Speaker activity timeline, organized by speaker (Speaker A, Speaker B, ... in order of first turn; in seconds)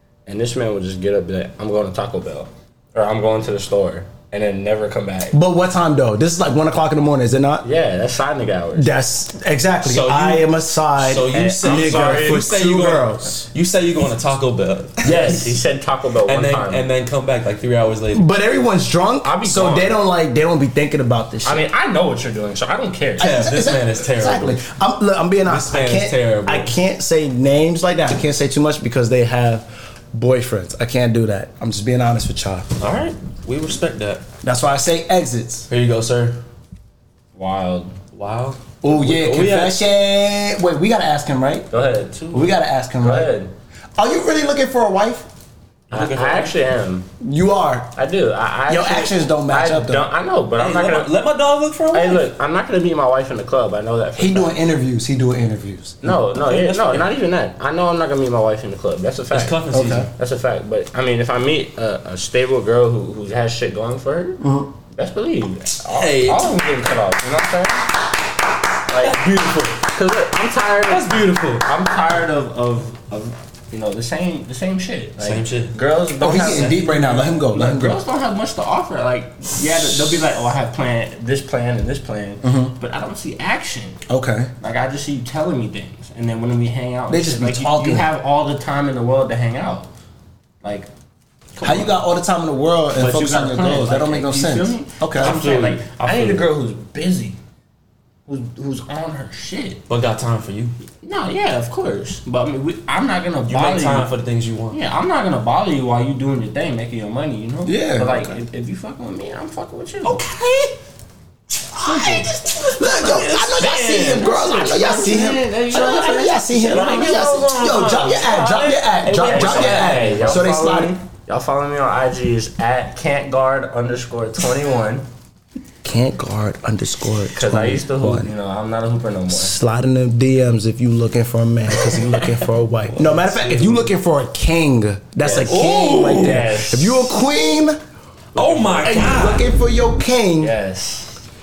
Speaker A: 0.2-5.3, 7.6-8.9, 11.3-12.4, 15.0-16.9, 19.2-20.0, 21.4-23.4, 37.4-38.0, 41.7-43.5, 45.9-47.1, 48.0-51.1, 51.9-54.6, 56.0-64.4, 64.9-68.0, 68.9-76.9, 77.5-84.0, 84.6-89.9, 90.6-90.9, 91.5-92.0, 93.0-97.4, 98.3-99.8, 101.0-104.1, 104.7-110.2, 111.9-112.3, 114.2-117.5, 119.1-125.0, 127.3-129.5, 132.9-133.9, 136.1-137.1, 138.3-139.0, 140.4-141.2
Speaker B: 5.3-7.6, 8.8-13.4, 15.1-15.4, 18.1-21.6, 23.2-32.7, 34.4-35.7, 38.8-41.7, 42.3-43.3, 44.0-45.3, 47.2-47.9, 48.7-50.0, 54.2-56.0, 59.8-60.0, 64.4-64.7, 76.2-78.0, 82.4-82.7, 84.1-84.5, 87.1-88.0, 91.6-95.3, 107.6-108.4, 111.8-120.9, 125.8-128.3, 129.3-137.8, 138.8-140.5
Speaker C: 9.8-15.6, 16.2-18.2, 23.2-24.6, 25.4-26.7, 32.8-34.2, 35.7-36.4, 38.1-39.8, 45.9-46.5, 50.6-52.3, 56.3-57.1, 59.3-60.1, 65.9-66.6, 68.9-69.8, 70.8-71.7, 75.2-75.8, 76.3-77.2, 95.2-96.4, 99.9-100.8, 103.5-104.8, 110.0-110.7, 111.8-114.4, 116.5-120.5, 135.2-136.4, 138.3-139.4